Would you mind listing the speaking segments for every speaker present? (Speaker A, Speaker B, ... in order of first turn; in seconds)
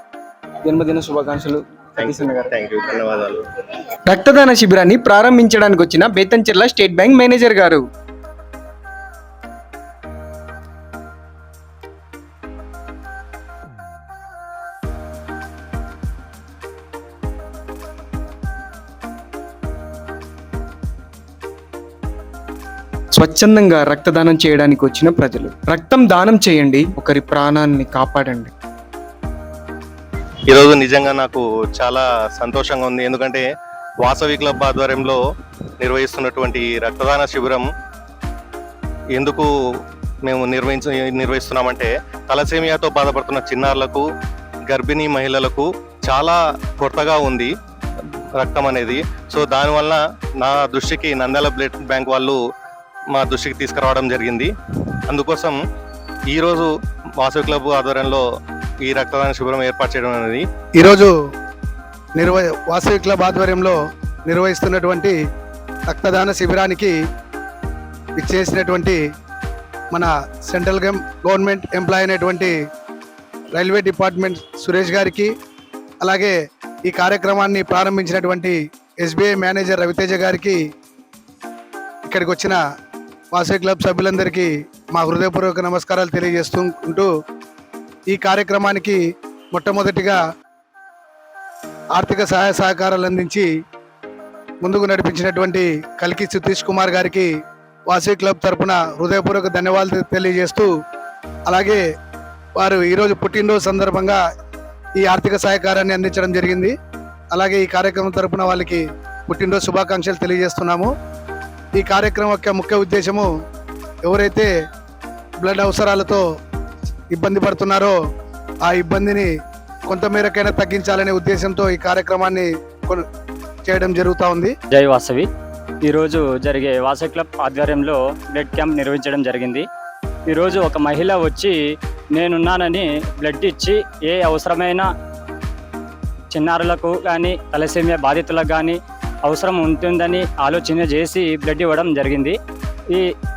Speaker A: 0.6-2.6, 4.1-7.8, 23.1-28.5
Speaker B: 2.0-3.4, 30.5-33.5, 34.0-35.2, 35.8-37.7, 39.1-39.5, 40.2-44.1, 44.7-47.5, 48.4-52.4, 53.1-54.5, 55.1-55.6, 56.3-58.2, 58.8-60.4
Speaker C: 60.8-61.1, 62.2-65.2, 65.9-66.9, 68.2-69.0, 69.9-72.5, 73.5-75.3, 76.0-76.3, 76.9-80.6, 82.1-82.6, 83.3-87.1, 88.1-89.0, 89.5-90.2, 92.0-93.5, 94.6-97.3, 97.9-100.7, 101.5-101.8, 102.6-104.2, 105.0-106.7, 107.3-110.9, 111.8-113.3, 114.0-114.5, 115.4-116.2, 117.1-117.9, 118.7-119.3, 119.9-123.0, 123.7-124.5
Speaker D: 124.8-125.3, 125.9-129.7, 130.3-131.6, 132.2-134.9, 136.3-142.3